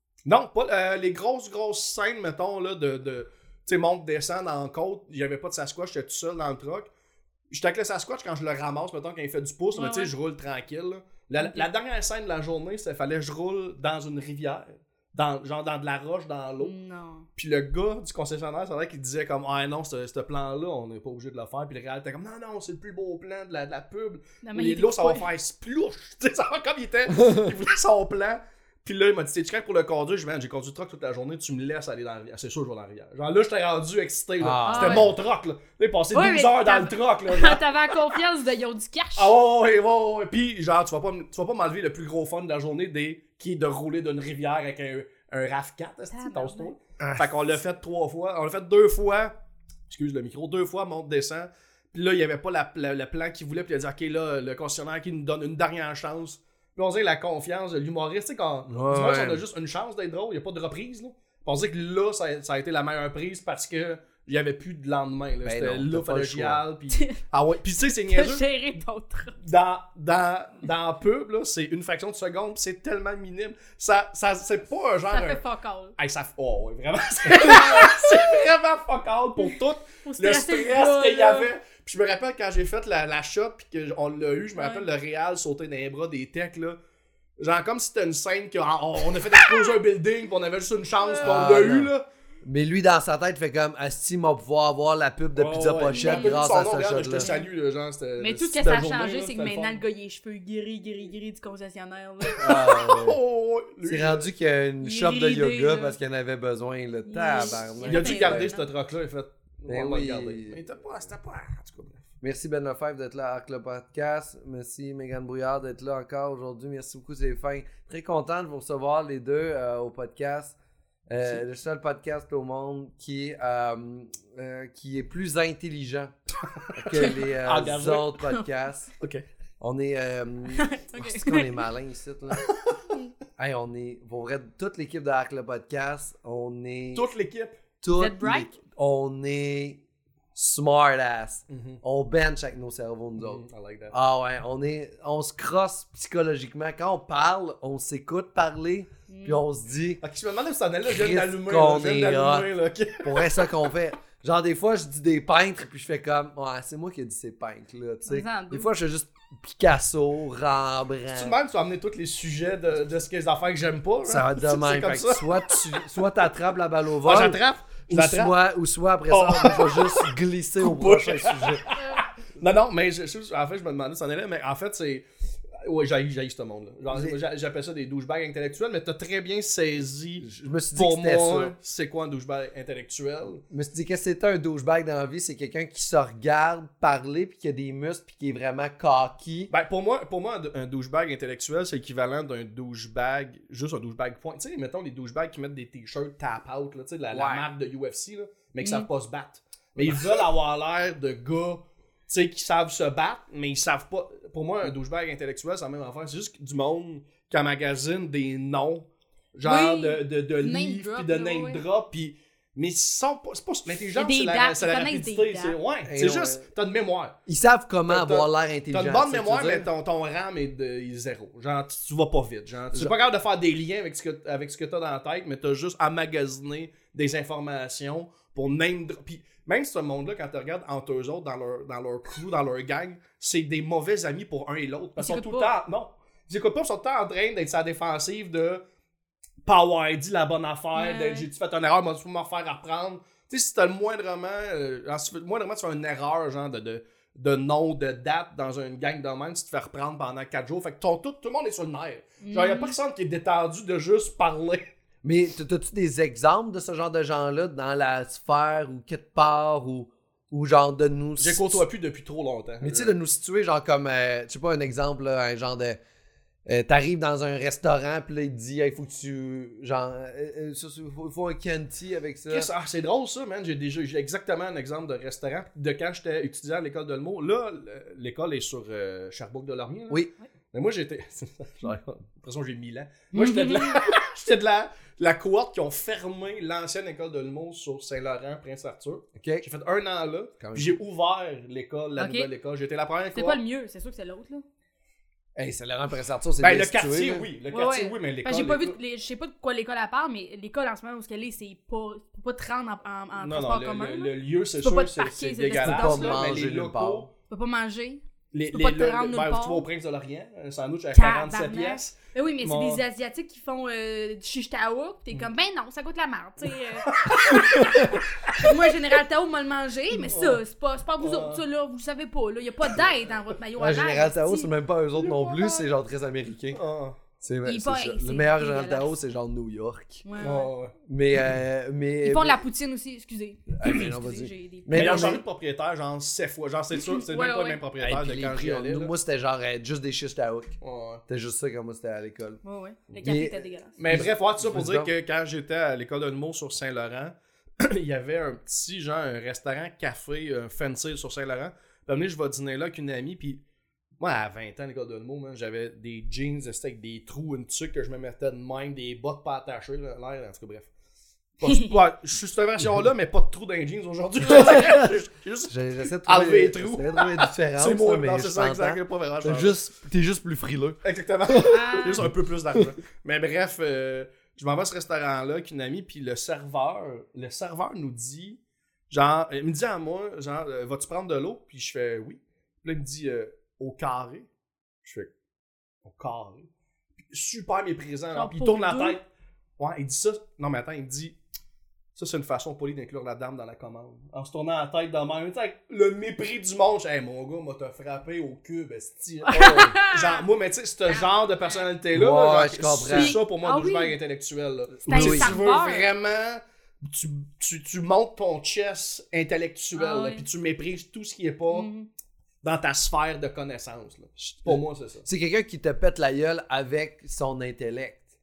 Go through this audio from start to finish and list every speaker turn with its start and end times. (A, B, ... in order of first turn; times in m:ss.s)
0:00.3-0:06.9 A
0:07.5-0:16.7 A
0:09.8-0:10.1 B
0:11.4-0:11.7 B
0:16.6-0:17.3 B
0:17.4-0:38.2 A
0:24.4-0:25.3 B
0:34.4-0:35.1 C
0:34.6-0:35.1 B
0:36.1-0:39.3 B
0:39.2-0:49.3 A
0:46.1-0:46.7 B
0:49.9-1:08.4 A
0:58.7-0:59.4 C
1:05.4-1:06.6 C
1:06.9-1:07.2 B
1:08.0-1:09.4 B
1:09.4-1:15.4 A
1:15.1-1:16.0 B
1:16.0-1:26.8 A
1:17.3-1:18.4 B
1:20.0-1:21.5 B
1:24.6-1:24.9 B
1:27.4-1:32.1 A
1:31.0-1:31.5 B
1:31.2-1:31.9 C
1:32.4-1:37.3 C
1:35.4-1:39.8 A
1:36.0-1:36.4 B
1:37.2-1:37.5 B
1:38.2-1:42.6 B
1:42.3-1:44.3 A
1:42.4-1:43.2 C
1:43.8-1:48.5 C
1:44.8-1:46.0 B
1:47.1-1:48.7 B
1:47.8-1:52.1 A
1:49.7-1:50.6 C
1:52.2-2:00.6 C
2:01.1-2:06.1 C
2:06.6-2:08.2 A
2:06.8-2:08.9 C
2:06.9-2:07.2 B
2:09.6-2:12.5 C
2:10.6-2:11.6 B
2:12.3-2:12.8 A
2:13.4-2:17.0 C
2:16.9-2:17.6 A
2:17.8-2:19.8 C
2:18.0-2:18.5 B
2:20.4-2:30.0 C
2:21.5-2:21.8 A
2:23.2-2:24.0 A
2:29.1-2:29.4 B
2:30.0-2:33.5 A
2:30.9-2:32.5 C
2:33.0-2:41.4 C
2:38.1-2:38.7 B
2:41.1-2:46.0 A
2:44.0-2:51.6 C
2:47.0-2:48.4 A
2:49.1-2:55.1 A
2:55.6-3:03.4 A
3:00.2-3:01.6 C
3:03.5-3:09.5 C
3:09.5-3:37.2 A
3:17.1-3:17.5 C
3:18.6-3:18.9 B
3:29.4-3:31.6 B
3:34.0-3:35.6 B
3:35.9-3:36.4 C
3:37.3-3:39.7 C
3:37.9-3:58.6 A
3:55.0-3:55.5 B
3:59.4-4:14.7 A
4:00.8-4:01.3 B
4:12.2-4:12.8 B
4:15.0-4:21.6 C
4:21.2-4:22.9 A
4:22.6-4:25.8 C
4:26.5-4:32.5 C
4:32.3-4:53.4 A
4:43.1-4:43.8 B
4:49.2-4:49.5 C
4:50.4-4:50.8 C
4:52.0-4:52.3 B
4:53.1-4:54.4 B
4:55.4-4:57.3 C
4:56.4-4:58.8 A
4:57.5-5:06.2 B
5:03.2-5:07.1 A
5:05.6-5:07.1 C
5:07.3-5:09.7 B
5:08.3-5:12.8 A
5:10.9-5:25.6 B
5:16.9-5:18.5 A
5:20.0-5:20.4 A
5:21.0-5:21.4 A
5:23.6-5:26.6 C
5:26.5-5:27.0 A
5:27.2-5:30.0 C
5:27.4-5:28.9 B
5:30.0-5:30.5 B
5:30.2-5:30.8 A
5:30.9-5:32.4 C
5:32.0-5:35.2 B
5:33.6-5:35.2 C
5:34.7-5:38.9 A
5:36.8-5:37.6 B
5:37.8-5:40.6 C
5:40.6-5:41.0 A
5:41.1-5:42.4 C
5:42.4-5:43.8 B
5:43.0-5:44.9 C
5:43.8-5:53.4 A
5:54.0-6:00.7 A
6:01.4-6:09.6 A
6:01.5-6:01.7 B
6:04.2-6:04.9 C
6:05.5-6:11.6 C
6:10.8-6:24.3 A
6:11.4-6:12.0 B
6:24.8-6:25.1 A
6:25.8-6:26.5 A
6:27.1-6:29.0 A
6:28.1-6:29.0 B
6:29.6-6:31.2 A
6:32.0-6:51.7 A
6:39.3-6:40.2 B
6:40.9-6:41.7 B
6:41.9-6:43.2 C
6:42.9-6:44.0 B
6:44.9-6:45.9 B
6:44.9-6:45.4 C
6:49.8-6:50.2 B
6:51.5-6:51.9 B
6:52.4-6:55.1 A
6:54.5-6:58.0 C